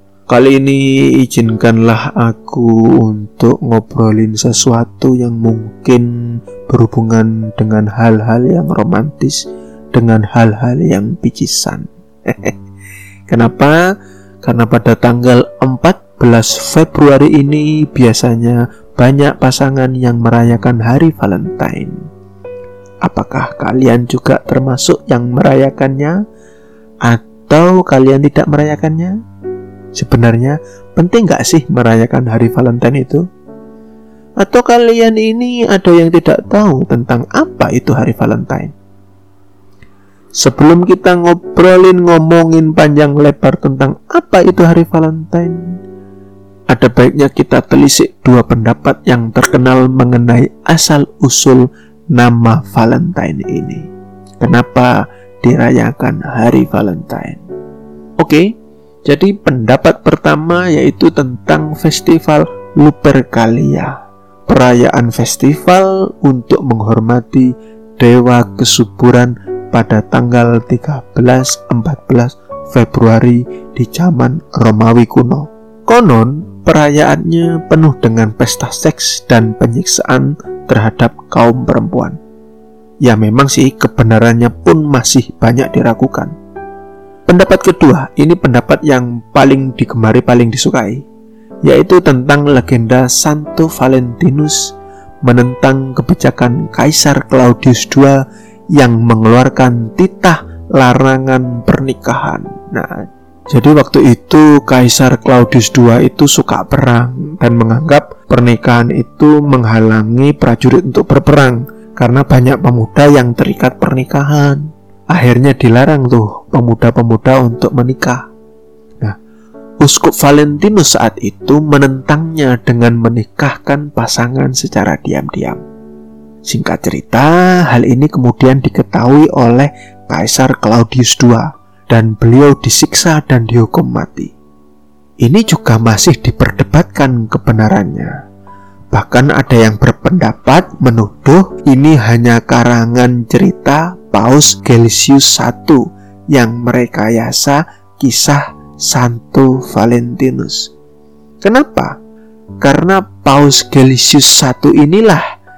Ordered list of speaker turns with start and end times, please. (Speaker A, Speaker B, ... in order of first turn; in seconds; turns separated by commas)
Speaker A: 0.3-6.1, Speaker A: 6.7-12.6, Speaker A: 13.3-13.8, Speaker A: 14.4-21.9, Speaker A: 23.1-26.2, Speaker A: 27.1-29.2, Speaker A: 30.0-33.2, Speaker A: 34.4-38.7, Speaker A: 40.4-45.6, Speaker A: 46.7-53.9, Speaker A: 54.4-57.4, Speaker A: 58.2-58.5, Speaker A: 59.1-64.0, Speaker A: 64.5-82.2, Speaker A: 83.0-86.3, Speaker A: 87.3-91.0, Speaker A: 91.7-98.2, Speaker A: 98.7-118.2, Speaker A: 119.8-125.6, Speaker A: 126.5-134.3, Speaker A: 135.2-138.1, Speaker A: 138.9-150.7, Speaker A: 151.4-152.0, Speaker A: 152.6-155.2